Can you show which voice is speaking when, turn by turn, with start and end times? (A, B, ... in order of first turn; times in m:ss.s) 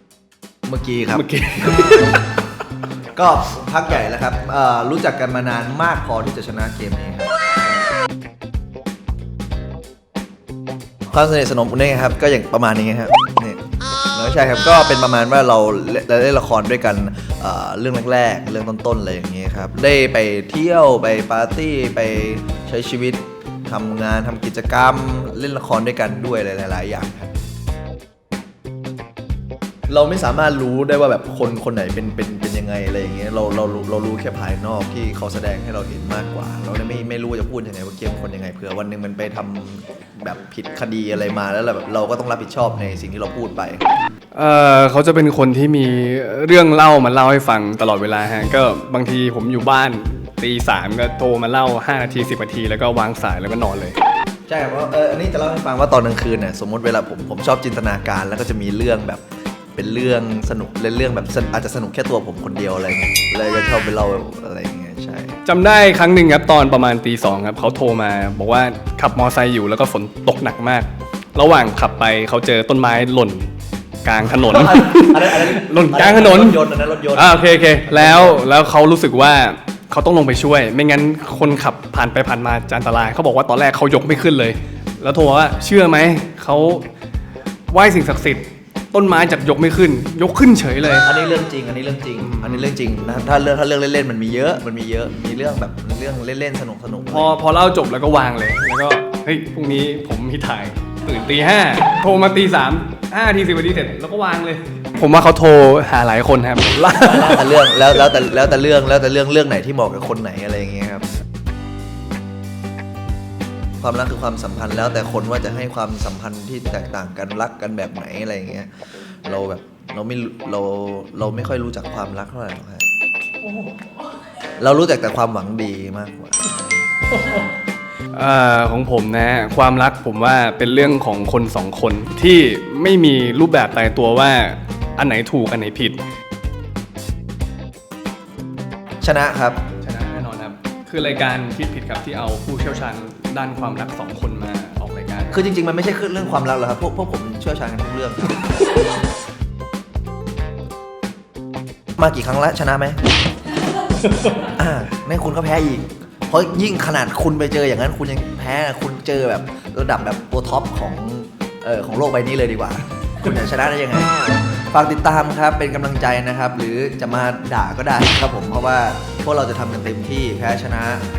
0:00.6-0:02.1 A
0:01.1-0:02.2 B
0:03.1-0:07.3 A
0:11.1-0:13.6 A
0:14.1-0:27.3 A
0:29.9-0:43.8 A
0:44.3-0:53.9 B
0:54.5-0:59.2 A
0:59.7-1:05.4 A
1:05.4-1:13.5 B
1:14.0-1:26.9 B
1:14.2-1:18.5 A
1:27.7-1:31.1 B
1:30.9-1:37.4 A
1:32.2-1:32.7 B
1:37.1-1:47.5 B
1:46.9-1:51.0 A
1:53.8-1:58.7 A
1:59.2-2:02.9 A
2:04.6-2:06.9 A
2:08.1-2:16.0 B
2:19.0-2:19.6 A
2:19.8-2:25.4 B
2:25.3-2:28.4 A
2:32.0-2:33.0 A
2:34.5-2:51.0 A